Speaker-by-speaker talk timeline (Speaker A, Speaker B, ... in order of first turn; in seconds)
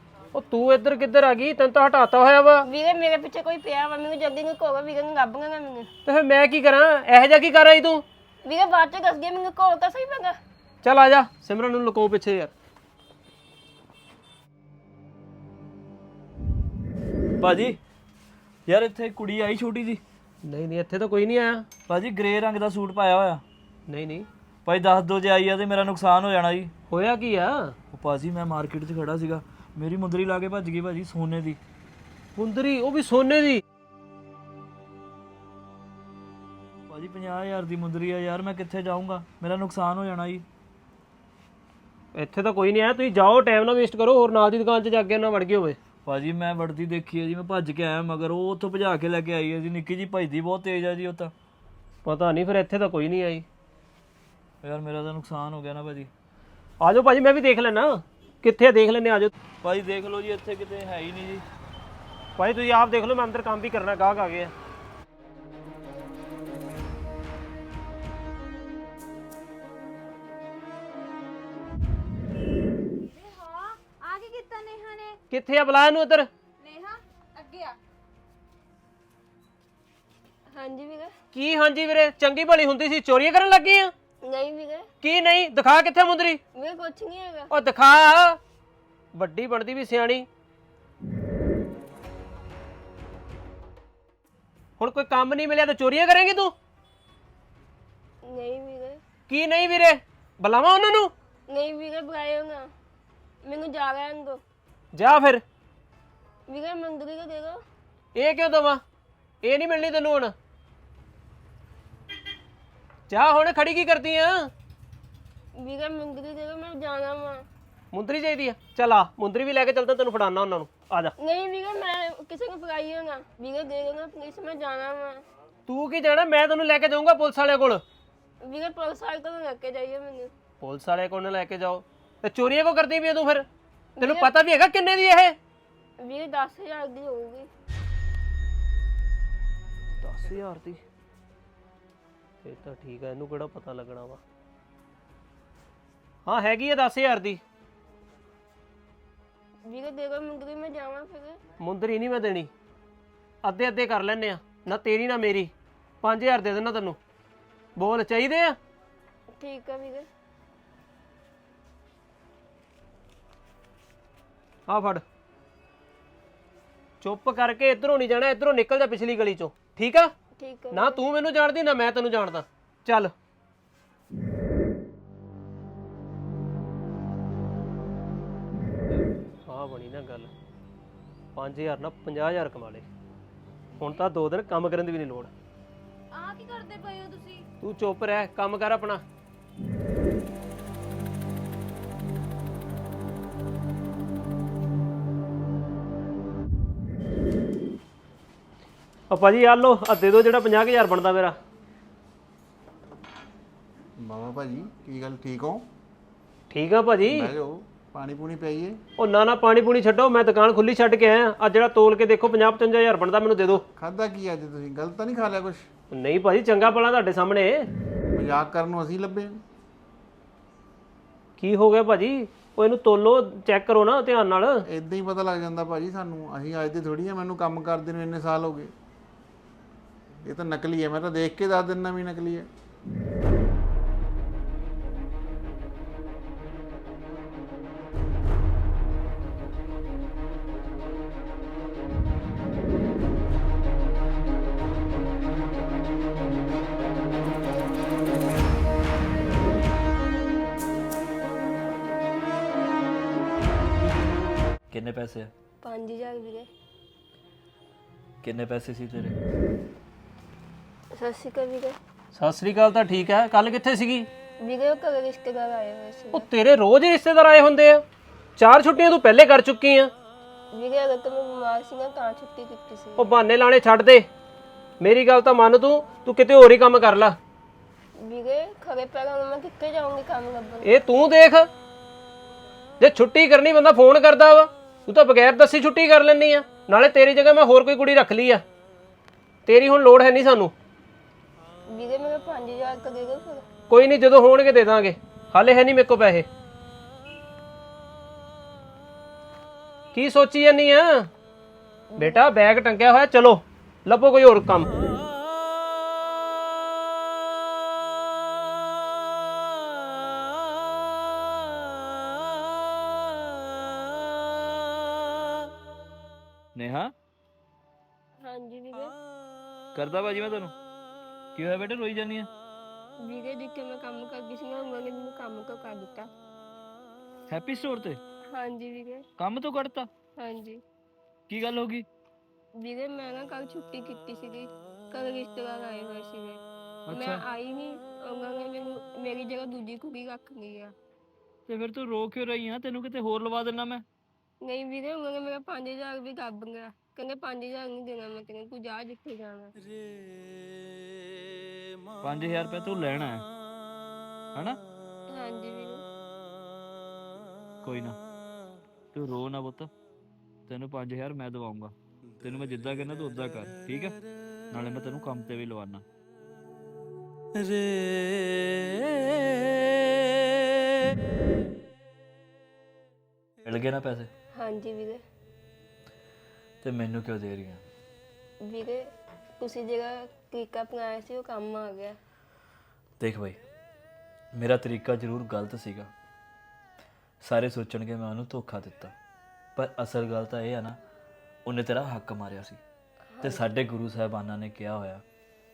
Speaker A: 0.3-2.6, 6.0-8.0, 10.8-12.5, 20.4-21.6, 23.9-24.3, 26.9-27.7, 32.4-33.6, 42.1-45.8, 52.0-53.4, 56.8-59.3, 62.4-64.5, 75.3-76.3, 81.3-83.9, 85.0-86.4, 87.5-88.4, 89.1-90.2, 94.8-96.5, 99.3-101.1, 104.9-105.4, 108.1-108.8, 109.4-110.3, 113.1-114.5, 117.9-121.1, 125.7-127.8, 130.6-133.5, 134.0-135.3, 142.4-144.2, 146.2-147.4, 151.6-152.5, 153.4-157.0, 157.8-158.6, 164.7-165.0, 167.0-170.1, 170.7-173.1, 179.5-180.3, 181.3-182.9, 183.8-185.3, 187.6-189.0, 199.1-201.4, 206.5-207.3, 209.0-213.6, 215.9-217.7, 221.4-224.6, 262.1-264.1, 266.1-267.8, 268.4-269.9, 273.0-274.1, 274.8-277.2, 280.6-281.5, 282.8-288.4, 289.4-290.5, 293.7-296.3, 299.9-301.1, 302.0-304.7
Speaker B: 2.6-5.9, 8.4-10.3, 80.5-81.1, 84.2-84.9, 86.5-87.5, 98.2-99.0, 101.5-102.7, 103.4-104.4, 106.5-107.6, 115.5-117.4, 121.2-125.2, 128.4-130.3, 134.0-134.3, 136.0-137.5, 149.6-151.4, 159.4-160.1, 170.4-171.0, 255.6-256.5, 260.9-261.8, 264.4-266.3, 270.5-273.1, 278.0-280.8, 291.7-293.4, 301.9-302.2, 318.2-318.9, 323.0-326.1, 328.3-329.0, 330.2-330.6, 332.6-340.7, 344.4-349.5, 355.1-355.8, 374.3-375.0, 378.4-382.0, 393.1-393.5
Speaker C: 17.4-17.8, 18.6-20.0, 21.9-23.4, 24.6-26.7, 27.9-31.6, 36.9-40.4, 46.0-51.3, 54.6-56.1, 59.6-61.4, 140.0-140.8, 254.7-255.3, 258.2-259.2, 316.5-316.9, 319.7-320.5, 321.3-322.3, 327.3-328.0, 329.2-329.9, 331.3-331.9, 336.9-337.2, 341.5-343.8, 352.0-353.2, 357.6-358.0, 358.9-359.7, 360.5-363.9, 364.5-365.8, 373.4-374.1, 376.6-377.6, 383.0-383.4, 384.3-385.9, 387.2-388.9, 389.6-390.8, 391.4-392.6, 393.2-395.0
Speaker D: 73.0-75.2, 76.6-77.8, 186.1-187.4
Speaker E: 204.0-205.7, 207.0-208.8, 213.7-215.7, 218.1-219.4, 224.7-228.7, 230.2-232.5